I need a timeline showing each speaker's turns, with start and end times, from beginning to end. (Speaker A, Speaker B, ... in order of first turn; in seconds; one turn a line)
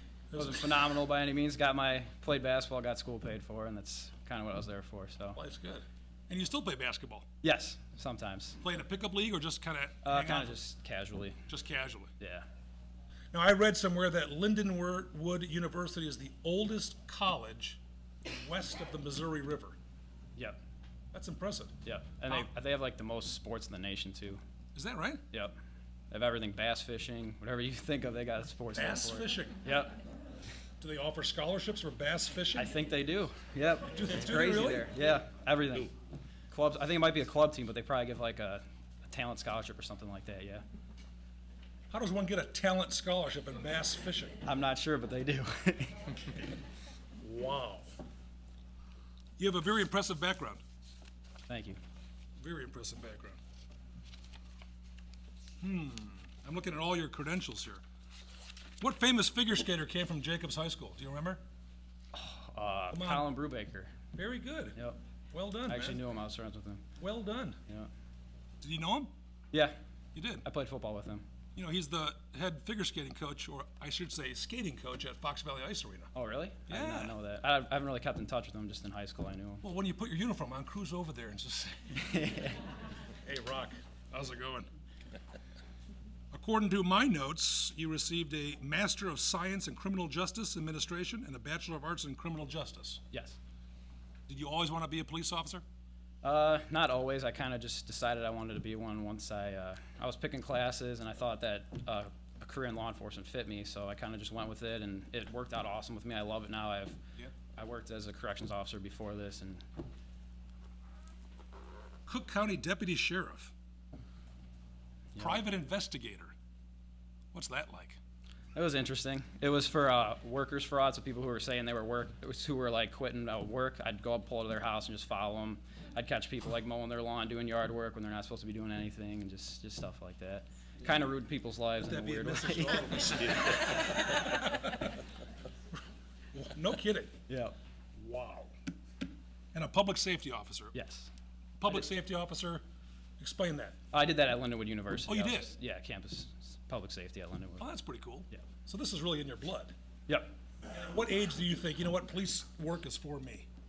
Speaker A: 0.3-0.7
Speaker B: 0.3-5.4
Speaker A: 5.3-7.3
Speaker B: 7.4-8.6
Speaker A: 8.6-10.6
Speaker B: 10.1-11.4
Speaker A: 11.5-12.1
Speaker B: 12.2-12.5
Speaker A: 13.3-19.8
Speaker A: 21.1-21.8
Speaker B: 21.9-24.4
Speaker A: 24.8-25.2
Speaker B: 26.1-29.9
Speaker A: 28.8-29.6
Speaker A: 30.8-32.7
Speaker B: 32.5-36.0
Speaker A: 33.9-34.9
Speaker B: 36.5-40.6
Speaker A: 41.9-44.4
Speaker B: 44.4-46.0
Speaker A: 47.2-47.9
Speaker A: 49.4-50.6
Speaker B: 51.5-51.8
Speaker A: 52.4-53.4
Speaker A: 55.6-57.8
Speaker A: 58.8-61.4
Speaker B: 62.1-63.9
Speaker A: 62.9-63.3
Speaker A: 64.1-64.8
Speaker A: 65.3-66.0
Speaker B: 65.7-66.8
Speaker A: 67.0-67.6
Speaker A: 68.6-69.1
Speaker A: 70.1-70.5
Speaker B: 70.4-71.2
Speaker A: 71.6-76.1
Speaker B: 76.1-79.6
Speaker A: 76.7-77.1
Speaker A: 79.6-82.2
Speaker B: 82.0-82.6
Speaker A: 83.2-84.7
Speaker A: 86.3-93.0
Speaker B: 93.1-93.4
Speaker A: 94.3-95.6
Speaker B: 96.2-107.0
Speaker B: 107.5-109.6
Speaker A: 112.1-113.5
Speaker B: 115.2-115.4
Speaker A: 115.2-116.3
Speaker A: 117.3-118.0
Speaker B: 118.5-133.3
Speaker A: 131.8-134.7
Speaker A: 136.3-137.2
Speaker B: 137.3-137.6
Speaker A: 137.9-138.5
Speaker A: 139.5-140.7
Speaker B: 140.7-141.1
Speaker A: 141.6-142.6
Speaker A: 143.2-143.8
Speaker B: 143.9-147.7
Speaker A: 145.1-145.5
Speaker A: 147.6-149.7
Speaker A: 150.7-153.5